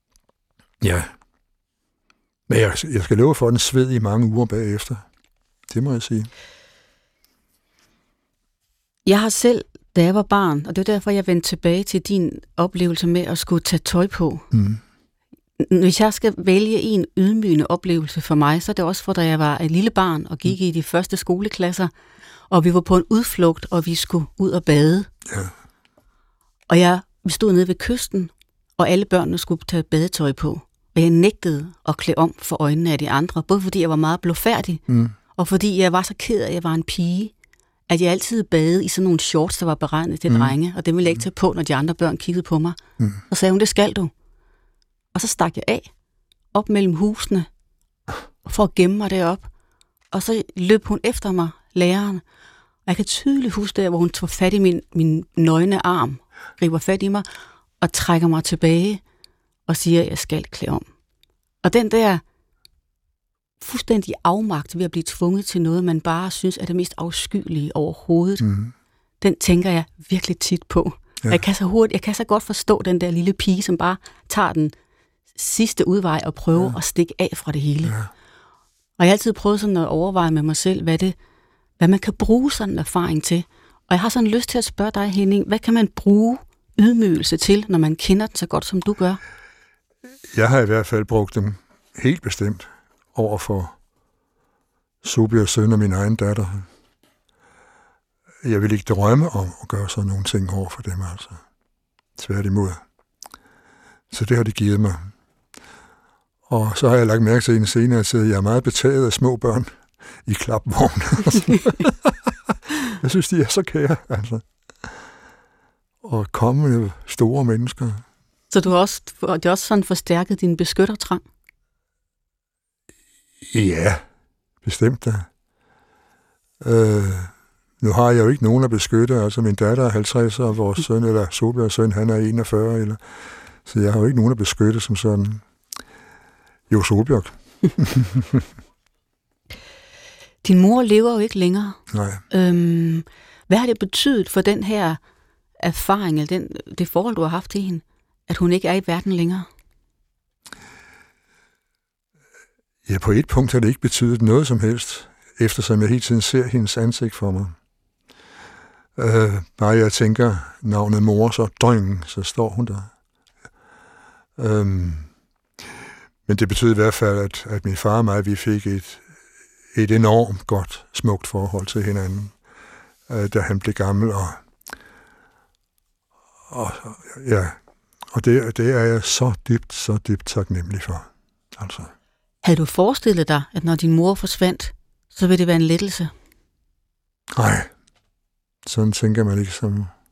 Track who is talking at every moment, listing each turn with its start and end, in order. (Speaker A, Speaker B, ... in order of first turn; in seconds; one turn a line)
Speaker A: 0.8-1.1
Speaker A: 2.5-5.0
Speaker A: 5.7-6.3
Speaker B: 9.1-14.5
Speaker A: 14.5-14.8
Speaker B: 15.6-21.9
Speaker B: 22.5-25.1
Speaker B: 26.7-34.8
Speaker A: 34.9-35.1
Speaker B: 35.4-37.3
Speaker B: 37.9-42.8
Speaker A: 40.3-40.5
Speaker B: 43.3-44.1
Speaker B: 45.1-45.9
Speaker B: 46.5-47.5
Speaker B: 48.5-49.5
Speaker B: 50.1-52.2
Speaker B: 52.9-57.3
Speaker B: 57.8-59.0
Speaker B: 59.7-60.9
Speaker B: 61.6-62.2
Speaker B: 63.6-68.5
Speaker A: 68.4-68.7
Speaker B: 69.2-74.7
Speaker B: 75.3-78.0
Speaker A: 77.8-78.1
Speaker B: 79.0-81.2
Speaker B: 81.8-89.2
Speaker A: 90.3-93.8
Speaker A: 95.0-96.7
Speaker A: 98.4-101.4
Speaker A: 102.2-102.8
Speaker A: 104.1-105.1
Speaker A: 106.5-109.7
Speaker A: 110.3-112.1
Speaker A: 113.0-114.5
Speaker A: 116.0-118.0
Speaker B: 118.5-121.2
Speaker A: 123.4-124.0
Speaker A: 124.6-125.3
Speaker A: 126.6-133.0
Speaker A: 133.7-135.4
Speaker A: 136.7-138.4
Speaker B: 140.4-141.8
Speaker A: 141.9-142.2
Speaker B: 142.3-145.0
Speaker B: 145.6-149.5
Speaker A: 152.9-157.6
Speaker A: 159.0-162.9
Speaker A: 164.4-165.1
Speaker A: 166.3-169.0
Speaker A: 169.7-172.3
Speaker A: 173.1-174.4
Speaker A: 176.5-177.6
Speaker A: 178.1-181.9
Speaker B: 182.4-186.1
Speaker A: 187.3-187.7
Speaker A: 188.7-189.9